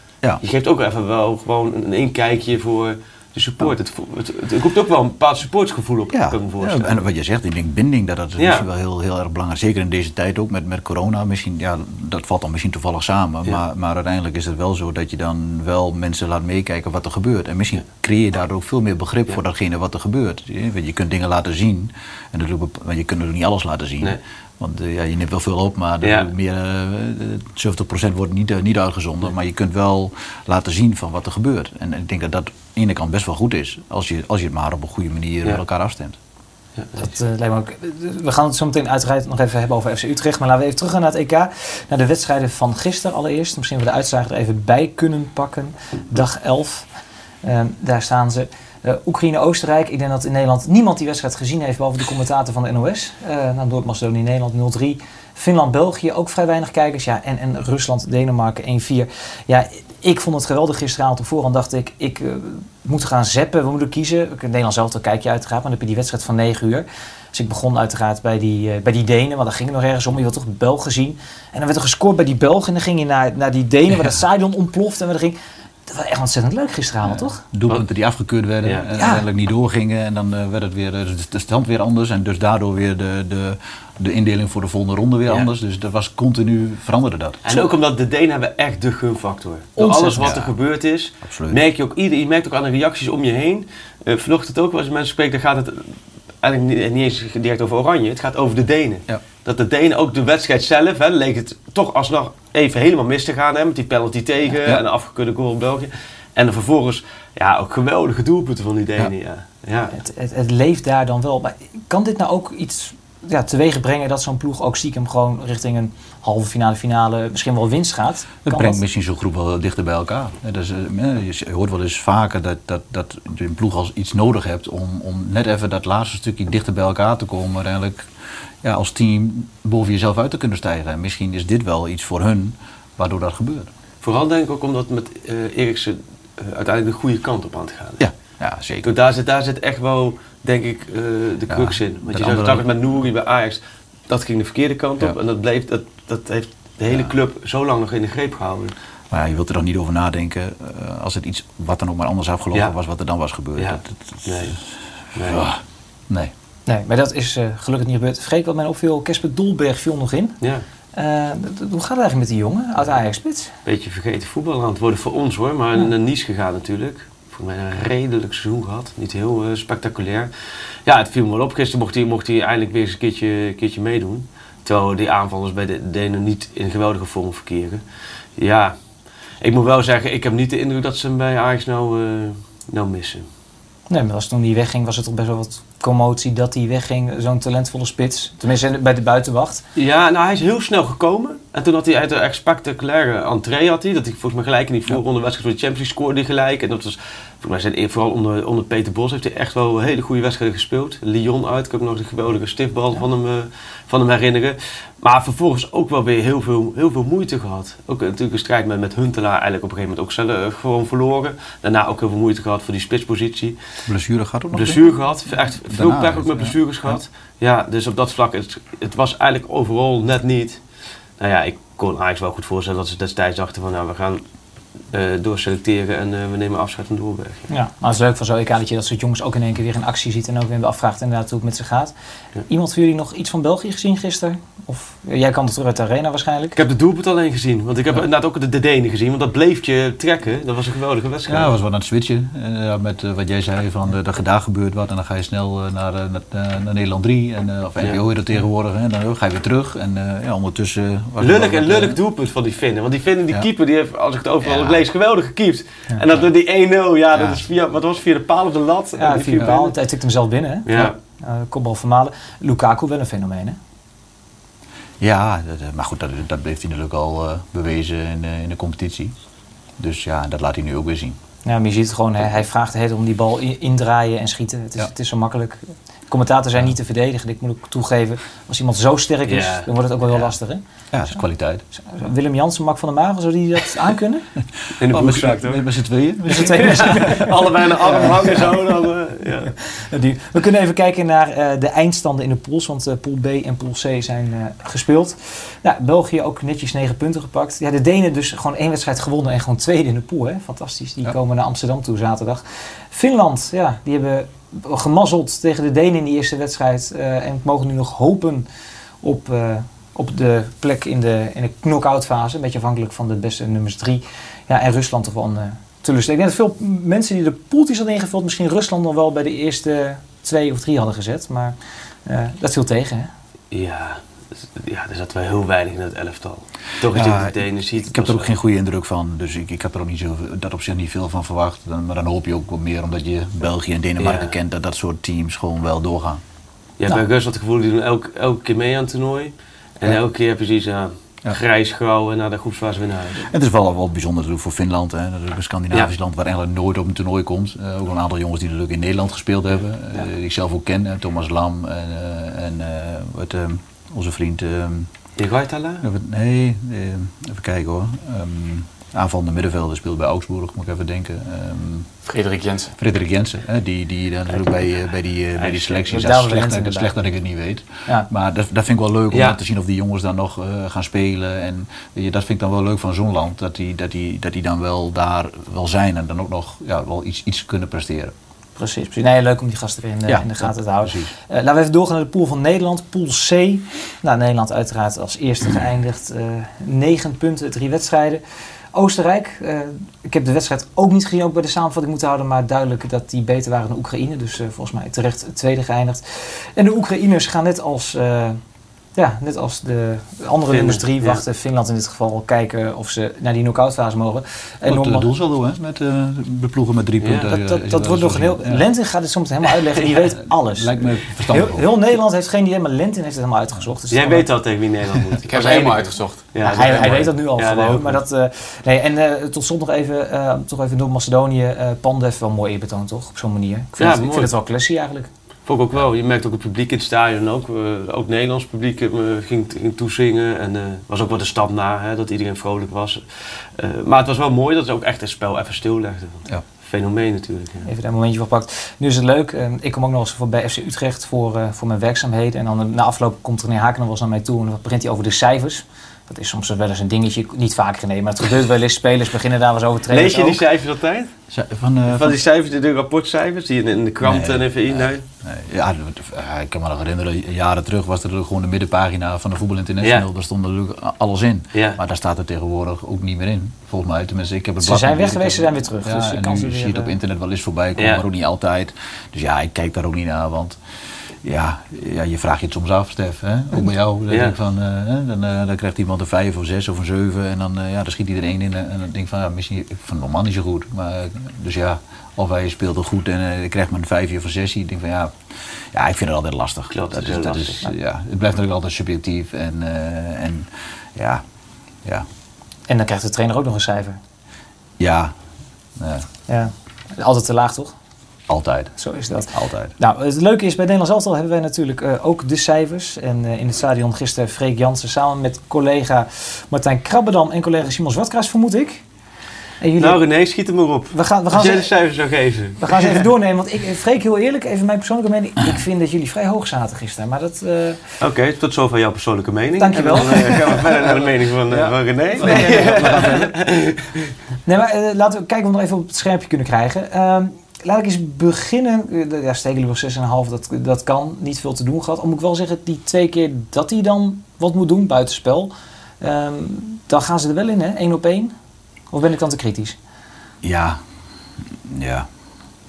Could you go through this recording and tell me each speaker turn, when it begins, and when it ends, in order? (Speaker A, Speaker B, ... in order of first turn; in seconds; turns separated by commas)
Speaker A: 0.4-7.0, Speaker B: 6.1-36.2, Speaker A: 8.4-8.7, Speaker A: 26.0-26.3, Speaker A: 36.8-37.1, Speaker C: 37.0-46.9, Speaker C: 47.4-77.4, Speaker B: 77.0-87.4, Speaker A: 78.6-78.9, Speaker C: 79.0-79.2, Speaker A: 87.4-110.0, Speaker C: 89.8-90.2, Speaker B: 90.2-90.5, Speaker B: 91.2-91.6, Speaker C: 110.0-118.8, Speaker B: 118.5-128.1, Speaker B: 128.6-133.7, Speaker A: 134.0-138.0, Speaker B: 138.0-139.0, Speaker A: 138.8-148.8, Speaker B: 141.5-142.7, Speaker B: 149.1-154.6, Speaker A: 153.6-154.6, Speaker A: 155.2-155.5, Speaker B: 155.2-156.3, Speaker C: 156.7-160.4, Speaker C: 160.9-163.5, Speaker A: 163.7-170.3, Speaker A: 170.8-177.8, Speaker A: 178.4-178.8, Speaker A: 179.4-183.3, Speaker C: 183.9-189.6, Speaker A: 189.8-213.6, Speaker B: 213.9-214.9, Speaker A: 214.5-220.6, Speaker B: 215.7-217.0, Speaker A: 221.2-224.2, Speaker A: 224.9-227.5, Speaker C: 227.5-231.9, Speaker C: 232.5-236.6, Speaker A: 236.6-241.5, Speaker B: 241.3-252.0, Speaker A: 251.2-259.7, Speaker B: 254.4-254.8, Speaker B: 257.1-257.4, Speaker C: 259.0-263.6, Speaker A: 260.7-261.0, Speaker B: 265.0-269.1, Speaker B: 269.8-271.2, Speaker C: 271.4-281.2, Speaker A: 279.3-279.7, Speaker B: 280.9-281.6, Speaker C: 281.8-284.3, Speaker A: 284.8-285.7, Speaker B: 284.8-287.3, Speaker C: 286.3-287.3, Speaker A: 286.4-289.6, Speaker C: 287.8-288.5, Speaker C: 289.6-308.5, Speaker C: 309.0-323.1, Speaker A: 323.5-328.4, Speaker B: 326.9-336.2, Speaker A: 334.0-334.4, Speaker A: 336.8-343.3, Speaker B: 343.2-354.9, Speaker A: 355.2-355.9, Speaker B: 355.8-361.9, Speaker D: 362.1-362.7, Speaker B: 362.8-378.1, Speaker C: 365.6-366.9, Speaker A: 369.1-369.4, Speaker C: 378.6-388.2, Speaker B: 380.1-381.1, Speaker C: 388.7-398.4, Speaker C: 399.0-405.1, Speaker A: 400.5-401.2, Speaker B: 404.7-408.7, Speaker A: 407.0-407.3, Speaker C: 407.3-414.3, Speaker B: 410.2-411.8, Speaker A: 413.9-418.0, Speaker D: 415.2-417.1, Speaker C: 416.5-425.1, Speaker A: 423.8-424.3, Speaker A: 425.5-437.7, Speaker C: 437.7-450.4, Speaker A: 449.9-451.1, Speaker B: 451.3-452.2, Speaker A: 451.9-455.0, Speaker B: 454.0-470.6, Speaker A: 459.8-460.1, Speaker A: 461.5-461.8, Speaker C: 464.6-466.9, Speaker A: 467.8-468.0, Speaker B: 471.2-491.2, Speaker A: 474.1-474.4, Speaker A: 486.7-487.7, Speaker C: 492.7-494.0, Speaker B: 494.8-495.1, Speaker B: 495.8-496.1, Speaker C: 496.3-497.7, Speaker B: 498.3-498.8, Speaker C: 498.8-508.8, Speaker B: 499.3-499.7, Speaker C: 509.6-510.0, Speaker A: 509.8-513.0, Speaker C: 510.9-511.7, Speaker C: 512.6-517.8, Speaker A: 518.0-524.1, Speaker C: 519.6-520.7, Speaker C: 521.5-523.3, Speaker B: 522.2-523.3, Speaker C: 524.5-538.3, Speaker C: 538.9-539.8, Speaker B: 540.4-540.8, Speaker B: 541.6-542.1